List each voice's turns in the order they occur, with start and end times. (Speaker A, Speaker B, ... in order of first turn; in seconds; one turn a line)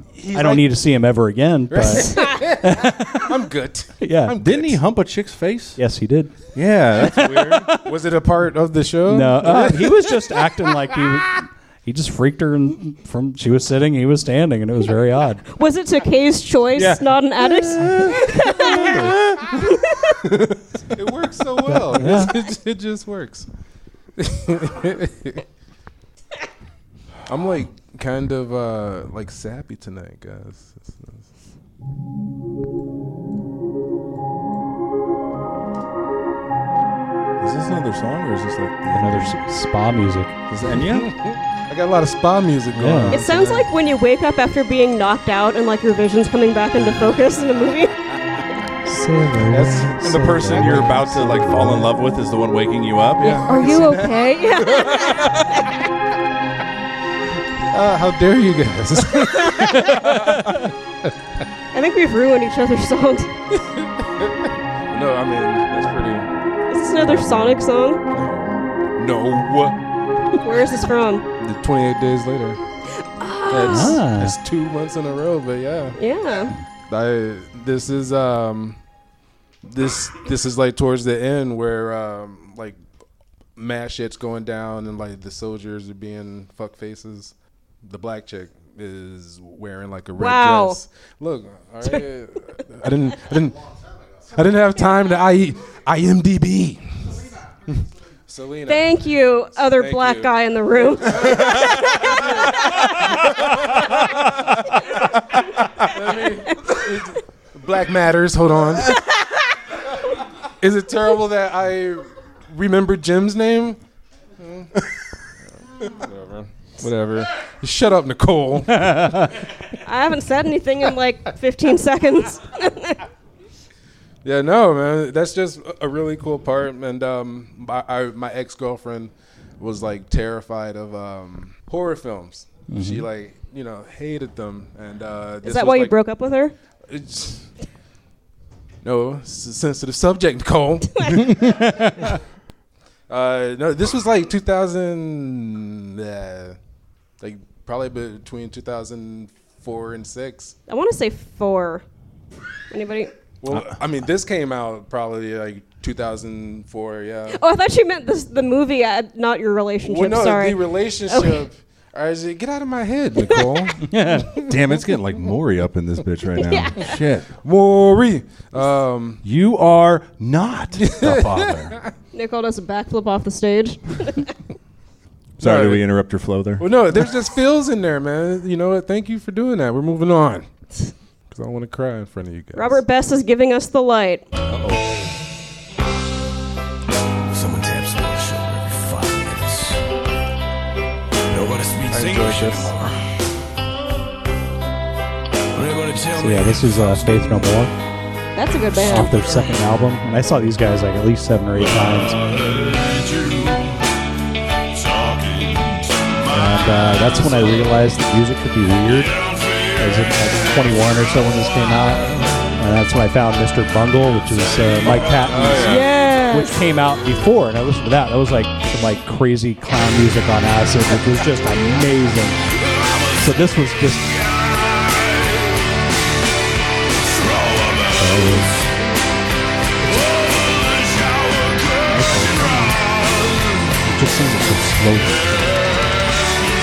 Speaker A: 0.1-0.7
Speaker B: 0.3-3.5
Speaker A: 1.7-4.8
Speaker C: 1.9-2.4
Speaker B: 4.0-4.4
Speaker D: 4.4-5.8
Speaker B: 5.8-6.3
Speaker D: 6.5-7.5
Speaker B: 7.0-8.0
Speaker A: 7.0-10.2
Speaker B: 9.1-15.4
Speaker C: 15.6-19.0
Speaker D: 16.8-19.5
Speaker B: 18.6-19.2
Speaker C: 19.6-20.2
Speaker A: 20.2-23.5
Speaker B: 21.6-22.4
Speaker A: 24.2-25.4
Speaker A: 27.3-31.2
Speaker D: 37.4-39.4
Speaker B: 38.9-40.4
Speaker D: 40.5-41.1
Speaker A: 40.8-43.7
Speaker B: 42.7-43.2
Speaker C: 43.1-48.0
Speaker B: 48.9-51.9
Speaker A: 49.5-51.8
Speaker D: 50.0-53.5
Speaker A: 53.2-55.7
Speaker C: 53.5-55.3
Speaker A: 57.7-60.7
Speaker C: 61.7-63.3
Speaker A: 64.9-66.3
Speaker C: 66.7-68.0
Speaker A: 68.1-69.8
Speaker C: 70.4-71.2
Speaker A: 71.4-72.6
Speaker C: 73.0-74.0
Speaker A: 73.5-76.0
Speaker B: 73.7-74.4
Speaker C: 76.0-76.5
Speaker A: 76.9-78.8
Speaker A: 79.6-82.8
Speaker A: 83.6-93.7
Speaker C: 90.2-90.8
Speaker A: 94.3-96.8
Speaker A: 97.7-103.5
Speaker C: 98.7-103.1
Speaker A: 105.8-109.0
Speaker A: 110.6-113.8
Speaker A: 114.4-114.7
Speaker A: 115.8-119.1
Speaker B: 118.7-119.3
Speaker C: 119.8-123.0
Speaker A: 124.2-135.9
Speaker B: 132.7-133.1
Speaker C: 135.4-136.5
Speaker A: 136.9-137.5
Speaker A: 138.8-142.2
Speaker B: 141.3-142.1
Speaker A: 143.1-146.6
Speaker A: 147.2-150.6
Speaker C: 150.7-151.8
Speaker C: 152.7-153.1
Speaker A: 153.4-157.4
Speaker C: 157.3-161.5
Speaker A: 159.8-164.6
Speaker C: 163.2-163.7
Speaker B: 163.8-164.3
Speaker D: 164.5-167.3
Speaker C: 166.4-166.9
Speaker A: 167.4-169.2
Speaker D: 169.2-171.8
Speaker A: 170.8-171.9
Speaker C: 172.1-174.3
Speaker A: 175.4-175.8
Speaker D: 175.4-176.7
Speaker A: 176.6-180.5
Speaker A: 181.3-182.8
Speaker C: 182.6-184.2
Speaker E: 187.3-189.9
Speaker E: 191.3-193.0
Speaker A: 191.9-192.9
Speaker E: 195.6-197.5
Speaker B: 196.2-197.7
Speaker C: 198.3-199.3
Speaker B: 198.8-202.2
Speaker E: 202.5-203.6
Speaker E: 204.8-206.2
Speaker B: 206.3-209.2
Speaker B: 209.8-222.4
Speaker D: 215.3-215.6
Speaker A: 215.4-215.8
Speaker C: 215.6-216.6
Speaker B: 223.1-224.2
Speaker E: 227.2-227.9
Speaker B: 227.9-228.7
Speaker B: 231.8-232.8
Speaker B: 233.8-235.8